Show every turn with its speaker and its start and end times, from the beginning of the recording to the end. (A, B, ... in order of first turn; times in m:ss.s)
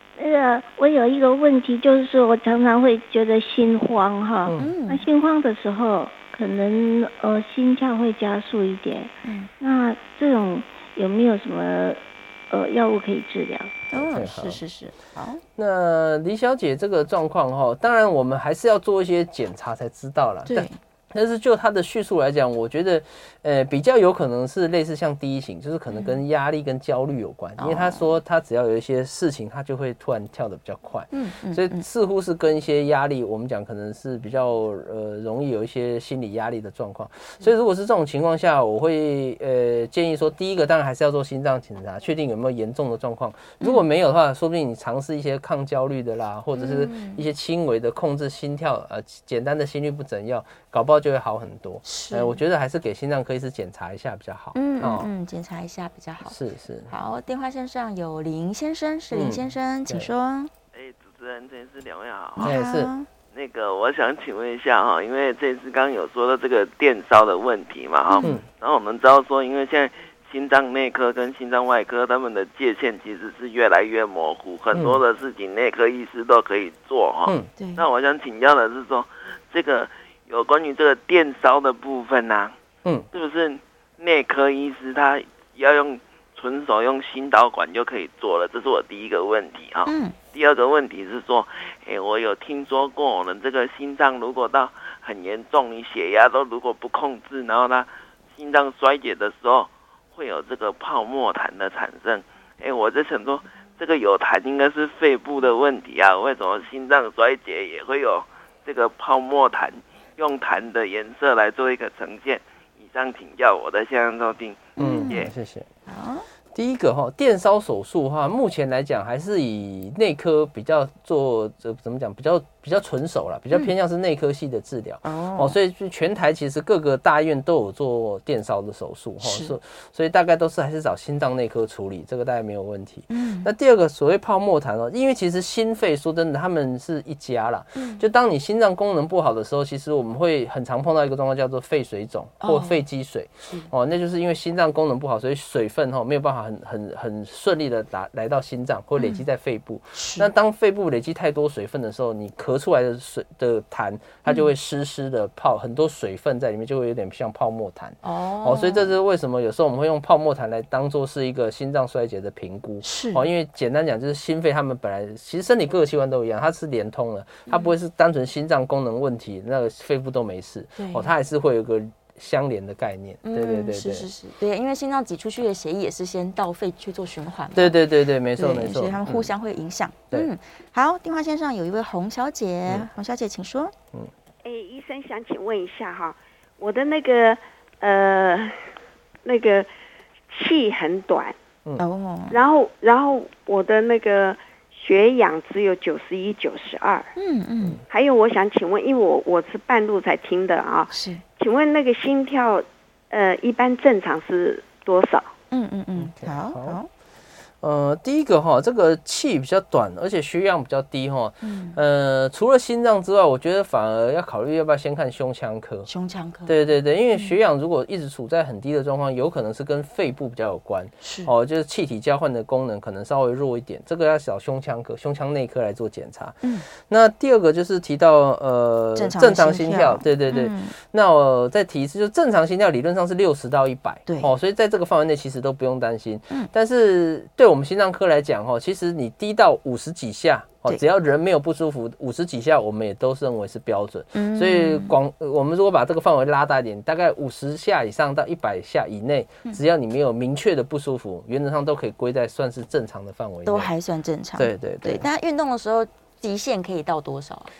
0:00.2-0:13.7 A
0:04.4-0:04.7 B
0:04.6-0:05.0 C
0:09.2-0:09.5 C
0:13.9-0:15.4 C
0:14.0-0:14.6 B
0:15.6-0:55.1 B
0:20.4-0:20.8 C
0:25.9-0:26.2 C
0:27.6-0:28.1 C
0:31.1-0:31.8 C
0:46.6-0:47.2 C
0:51.8-0:52.4 C
0:54.6-0:56.4 C
0:56.2-0:56.9 B
0:56.9-1:00.5 C
0:59.1-1:00.1 B
1:00.7-1:02.5 D
1:02.4-1:02.9 B
1:02.4-1:03.1 C
1:03.3-1:22.6 D
1:14.7-1:15.0 B
1:17.6-1:17.8 C
1:23.1-1:55.3 D
1:29.9-1:30.1 C
1:54.8-1:55.2 C
1:54.8-1:55.7 B
1:55.9-1:56.3 C
1:56.5-2:54.1 B
2:05.0-2:05.6 C
2:09.2-2:09.5 C
2:13.1-2:13.5 C
2:17.8-2:18.0 C
2:22.4-2:22.8 C
2:30.0-2:30.3 C
2:38.0-2:39.0 C
2:42.8-2:43.3 C
2:50.8-2:51.1 C
2:53.2-2:57.8 C
2:57.6-2:59.3 B
2:58.4-3:03.7 C
3:04.4-3:08.6 E
3:09.2-3:09.7 E
3:10.3-3:11.4 E
3:11.8-3:12.4 C
3:12.3-3:17.1 E
3:17.2-3:17.8 C
3:17.9-3:25.3 E
3:20.9-3:21.2 C
3:25.5-3:26.9 C
3:26.0-3:26.8 B
3:27.6-3:35.9 B
3:31.4-3:31.8 C
3:35.9-3:36.5 C
3:36.4-4:13.7 B
3:41.0-3:41.3 C
3:49.0-3:50.7 C
4:04.1-4:04.9 C
4:13.4-4:17.5 C
4:14.4-4:15.0 B